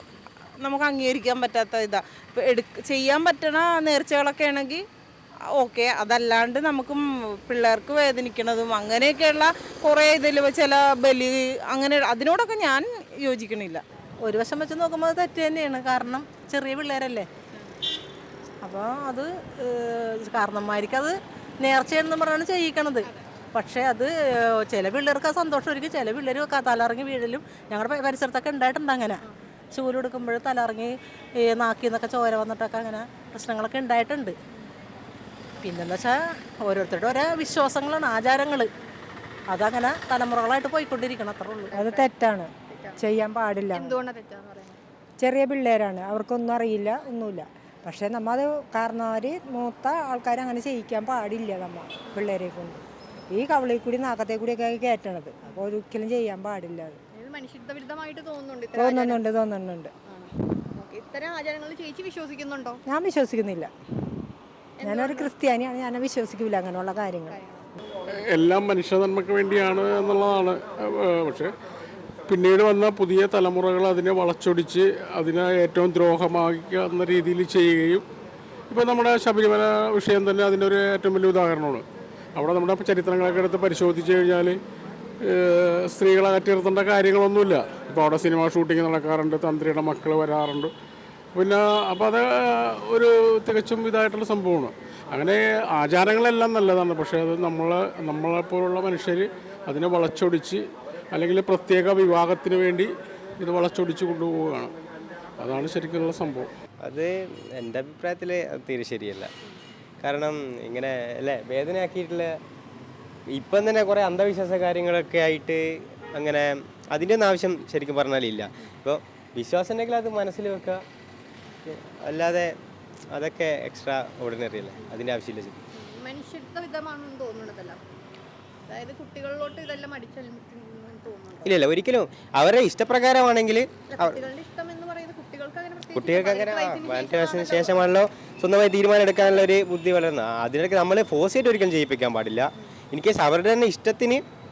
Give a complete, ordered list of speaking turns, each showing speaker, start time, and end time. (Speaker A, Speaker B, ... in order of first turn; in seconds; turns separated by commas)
Speaker A: 0.6-4.8, Speaker A: 5.6-13.8, Speaker B: 14.2-17.3, Speaker B: 18.6-34.3, Speaker B: 35.6-38.7, Speaker B: 39.5-41.8, Speaker C: 41.7-42.1, Speaker D: 41.8-44.0, Speaker C: 42.7-43.2, Speaker C: 43.7-44.8, Speaker D: 45.2-57.0, Speaker C: 52.0-52.3, Speaker C: 57.1-59.2, Speaker D: 58.8-59.9, Speaker C: 60.1-62.8, Speaker D: 62.9-63.7, Speaker C: 64.8-65.3, Speaker D: 64.8-67.4, Speaker C: 67.3-67.6, Speaker E: 68.1-71.5, Speaker E: 72.3-78.0, Speaker E: 78.7-81.8, Speaker E: 82.3-84.6, Speaker E: 85.2-90.7, Speaker E: 91.3-104.7, Speaker E: 105.4-106.5, Speaker F: 106.8-109.3, Speaker F: 110.0-112.3, Speaker F: 113.3-120.8, Speaker F: 121.6-122.5, Speaker F: 123.1-125.6, Speaker C: 124.8-125.0, Speaker C: 125.7-127.8, Speaker C: 128.7-131.5, Speaker F: 131.4-134.2, Speaker C: 133.8-138.0, Speaker F: 135.9-144.2, Speaker C: 139.2-139.5